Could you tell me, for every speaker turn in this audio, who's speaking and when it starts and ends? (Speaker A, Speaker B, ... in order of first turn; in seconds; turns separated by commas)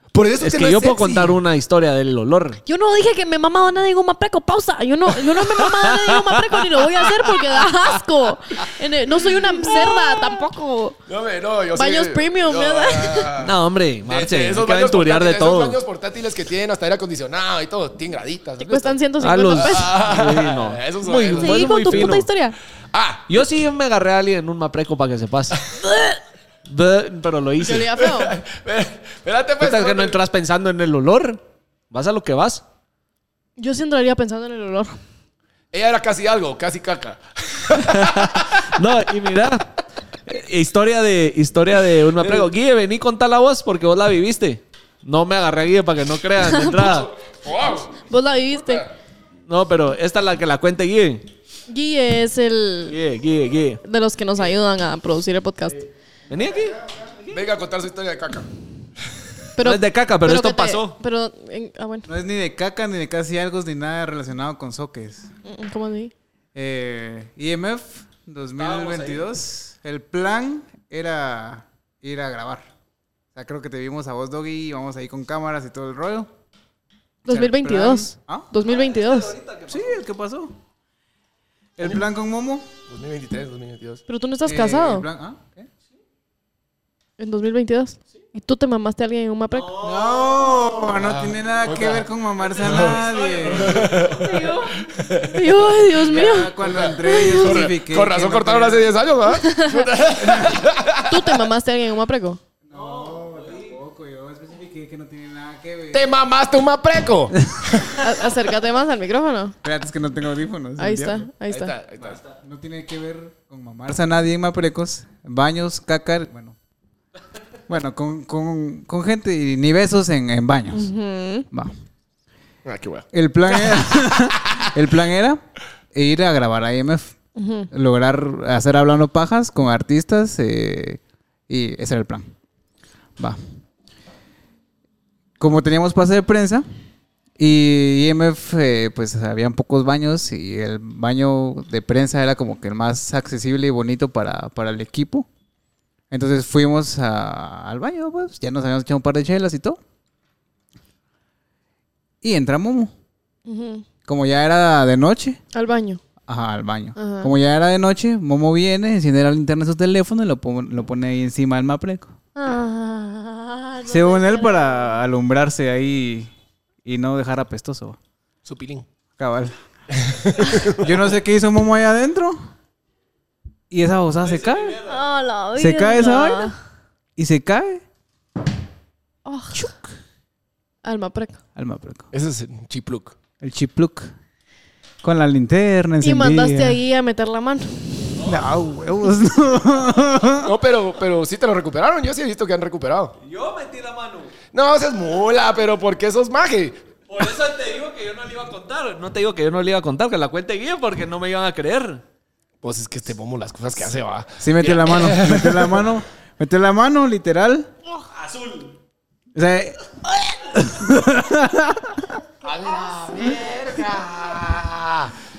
Speaker A: 0.1-1.4, Speaker B: 0.4-2.6, Speaker C: 2.6-11.0, Speaker B: 5.3-6.8, Speaker A: 11.1-22.2, Speaker C: 11.7-13.3, Speaker B: 13.4-15.8, Speaker C: 18.6-19.9, Speaker B: 19.2-22.3, Speaker C: 21.4-22.5, Speaker A: 22.9-23.5, Speaker B: 23.3-25.7, Speaker B: 26.7-27.9, Speaker C: 27.6-28.4, Speaker A: 27.9-30.2, Speaker B: 29.6-32.6, Speaker C: 33.6-35.0, Speaker A: 35.7-38.7, Speaker B: 37.8-39.7, Speaker B: 40.2-47.1, Speaker A: 42.2-42.5, Speaker C: 46.4-47.0, Speaker A: 47.2-48.0, Speaker C: 48.1-48.9, Speaker B: 49.5-51.3, Speaker C: 51.7-53.0, Speaker B: 52.9-53.8, Speaker C: 53.8-55.8, Speaker B: 56.3-57.4, Speaker A: 57.3-58.5, Speaker C: 59.6-62.0, Speaker B: 59.6-61.0, Speaker D: 62.1-65.3, Speaker C: 65.4-66.1, Speaker D: 66.5-72.7, Speaker B: 68.6-69.2, Speaker D: 73.3-76.3, Speaker D: 77.2-78.5, Speaker C: 77.2-79.3, Speaker B: 78.6-80.0, Speaker D: 79.7-80.6, Speaker D: 81.8-82.7, Speaker A: 82.9-84.0, Speaker C: 84.1-85.1, Speaker D: 84.5-85.7, Speaker C: 87.2-89.7, Speaker B: 89.5-90.5, Speaker D: 89.8-93.8, Speaker A: 90.9-92.1, Speaker A: 92.6-95.5, Speaker B: 92.7-94.8, Speaker C: 95.2-97.6, Speaker D: 96.0-99.0, Speaker A: 96.6-101.4, Speaker C: 99.2-99.9, Speaker C: 101.1-102.4, Speaker D: 102.7-106.1, Speaker B: 102.7-103.8, Speaker A: 105.9-108.1, Speaker C: 108.0-109.5, Speaker D: 109.6-111.3, Speaker C: 110.8-111.7, Speaker A: 111.5-112.2, Speaker D: 112.4-116.5, Speaker D: 117.7-120.9, Speaker C: 120.7-121.5, Speaker A: 122.6-123.1, Speaker D: 123.1-125.4, Speaker D: 125.9-127.1, Speaker C: 127.3-127.7, Speaker D: 127.7-132.3, Speaker D: 135.4-136.7, Speaker D: 137.4-145.3, Speaker D: 146.1-149.8, Speaker D: 152.2-152.9, Speaker C: 153.4-153.8, Speaker D: 154.0-155.4, Speaker C: 155.5-156.0, Speaker D: 156.3-162.1, Speaker C: 156.9-157.3, Speaker C: 162.3-164.9, Speaker D: 163.9-166.3, Speaker D: 166.8-168.0, Speaker A: 168.4-168.8, Speaker D: 169.2-169.5, Speaker A: 169.9-171.0, Speaker D: 170.6-172.5, Speaker D: 173.7-174.8, Speaker B: 174.3-174.8, Speaker C: 174.8-176.5, Speaker D: 175.6-176.5, Speaker D: 177.2-177.8, Speaker C: 179.2-179.7, Speaker D: 179.5-179.9, Speaker C: 180.8-181.4, Speaker D: 181.6-182.1, Speaker A: 182.1-183.2, Speaker D: 183.4-184.1, Speaker D: 185.0-186.8, Speaker C: 186.0-188.1, Speaker D: 188.2-190.5, Speaker A: 190.4-193.2, Speaker B: 193.2-194.3, Speaker A: 194.5-196.8, Speaker B: 197.1-202.0, Speaker A: 202.6-205.9, Speaker D: 204.4-207.7, Speaker B: 208.1-208.7, Speaker D: 209.3-212.2, Speaker A: 212.4-215.1, Speaker B: 213.1-213.6